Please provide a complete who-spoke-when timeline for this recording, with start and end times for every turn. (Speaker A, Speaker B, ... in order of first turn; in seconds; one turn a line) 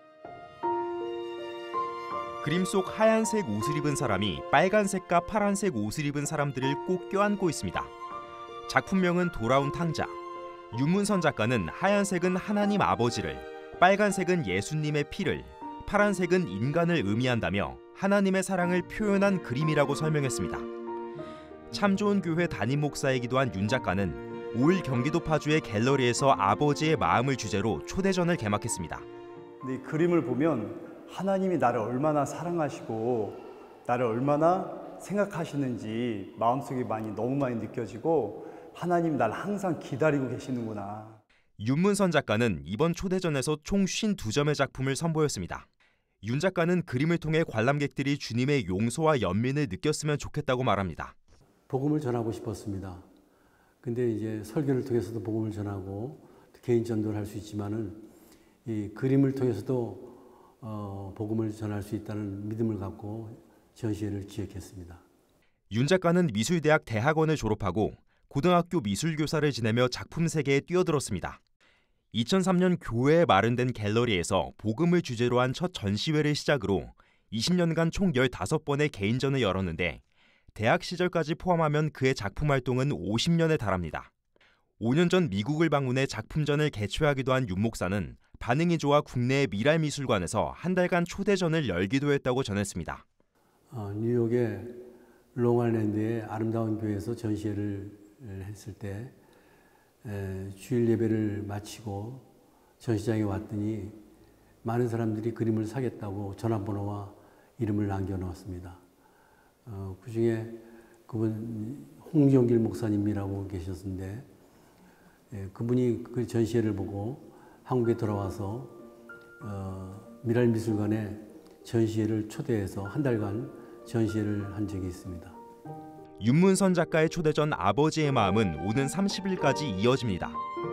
Speaker A: 2.4-7.9
Speaker A: 8.7-10.2
Speaker A: 10.7-20.7
Speaker A: 21.7-29.1
Speaker B: 29.6-41.2
Speaker A: 41.6-45.7
Speaker A: 46.2-51.1
Speaker C: 51.7-53.1
Speaker C: 53.8-58.1
Speaker C: 58.6-65.0
Speaker A: 65.7-71.4
Speaker A: 72.1-80.0
Speaker A: 80.5-84.1
Speaker A: 84.8-93.0
Speaker C: 93.7-99.2
Speaker C: 100.0-102.3
Speaker C: 102.8-104.0
Speaker C: 104.6-108.8
Speaker C: 109.7-114.3
Speaker C: 115.3-118.8
Speaker C: 119.4-125.4
Speaker A: 126.2-130.4